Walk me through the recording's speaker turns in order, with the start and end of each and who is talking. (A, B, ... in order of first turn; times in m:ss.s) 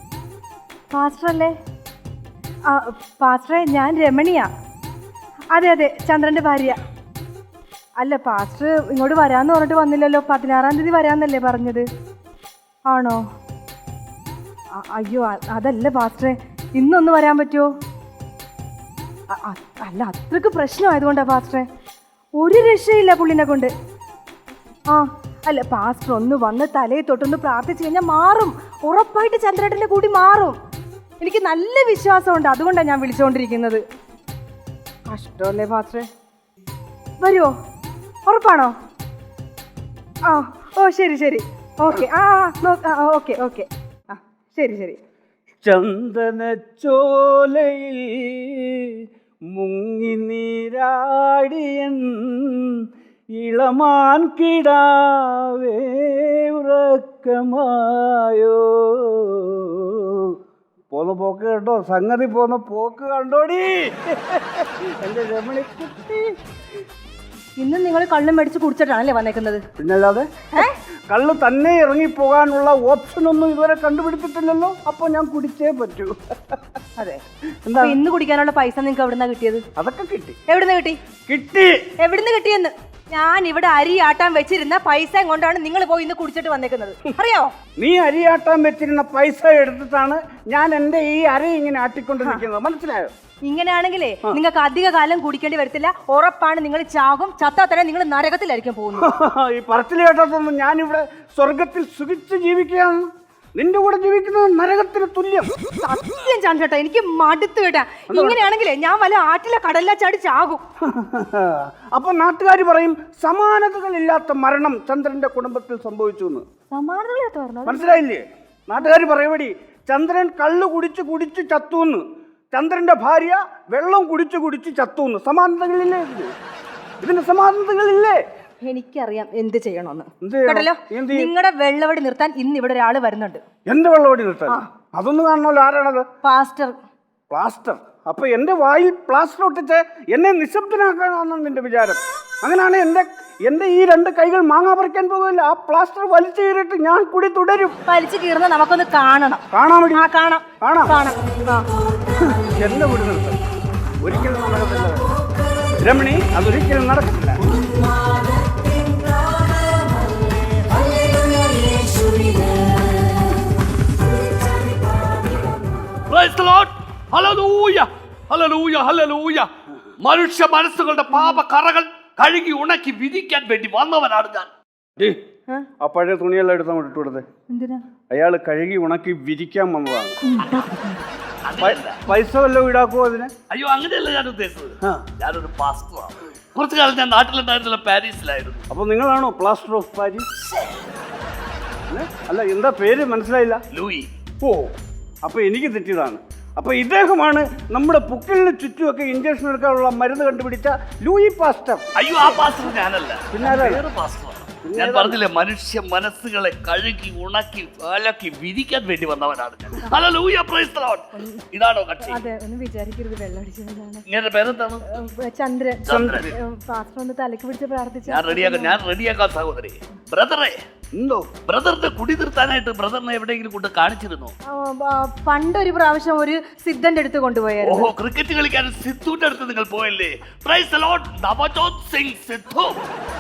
0:00.9-0:01.5 A
0:02.7-0:04.5 A
0:05.5-0:06.8 A
0:08.0-0:11.8 A
0:12.9-0:13.2 A
0:14.7-0:17.7 A
0:19.3-0:21.7 A
0:22.4-0:23.7 A
0:24.9-0:30.6 A
0:31.2-0:33.8 A
0:35.1-0:36.1 A
0:37.2-0:37.5 A
0:38.3-0:38.7 A
0:40.3-0:45.0 A
0:45.6-0:49.0 B
0:49.5-0:52.8 B
0:53.4-1:00.4 B
1:00.9-1:06.3 B
1:07.6-1:09.6 A
1:09.8-1:16.6 B
1:17.7-1:18.0 B
1:17.8-1:19.6 A
1:19.8-1:20.4 B
1:20.5-1:21.0 A
1:21.3-1:21.8 B
1:22.0-1:27.5 A
1:27.8-1:33.1 B
1:33.4-1:39.1 A
1:39.0-1:43.0 B
1:43.6-1:45.5 B
1:45.8-1:50.6 A
1:48.1-1:48.4 B
1:50.8-1:56.4 B
1:56.7-1:58.0 A
1:57.7-2:06.3 B
2:07.0-2:08.2 B
2:08.6-2:13.4 A
2:10.2-2:11.3 B
2:13.7-2:16.0 B
2:16.2-2:16.8 A
2:17.3-2:27.8 B
2:27.9-2:31.7 A
2:29.5-2:30.1 B
2:30.6-2:31.0 B
2:32.2-2:33.4 B
2:34.0-2:35.1 B
2:35.8-2:37.4 B
2:46.1-2:49.5 C
2:50.0-2:54.5 C
2:51.1-2:51.4 A
2:55.8-2:57.2 B
2:57.5-2:57.8 A
2:58.1-3:00.2 B
3:00.2-3:01.0 A
3:01.5-3:02.0 C
3:01.6-3:03.3 B
3:03.5-3:08.6 C
3:08.7-3:10.3 B
3:11.9-3:13.6 B
3:13.7-3:14.1 C
3:14.4-3:14.7 B
3:15.2-3:21.8 B
3:22.0-3:32.2 C
3:22.2-3:22.8 A
3:23.3-3:23.8 B
3:24.6-3:25.2 B
3:31.1-3:31.4 A
3:32.0-3:34.0 A
3:34.1-3:34.8 C
3:34.9-3:38.8 A
3:35.8-3:36.3 C
3:35.9-3:36.3 B
3:38.1-3:40.6 C
3:41.0-3:41.4 B
3:41.5-3:44.3 C
3:44.5-3:47.9 A
3:47.6-3:52.9 C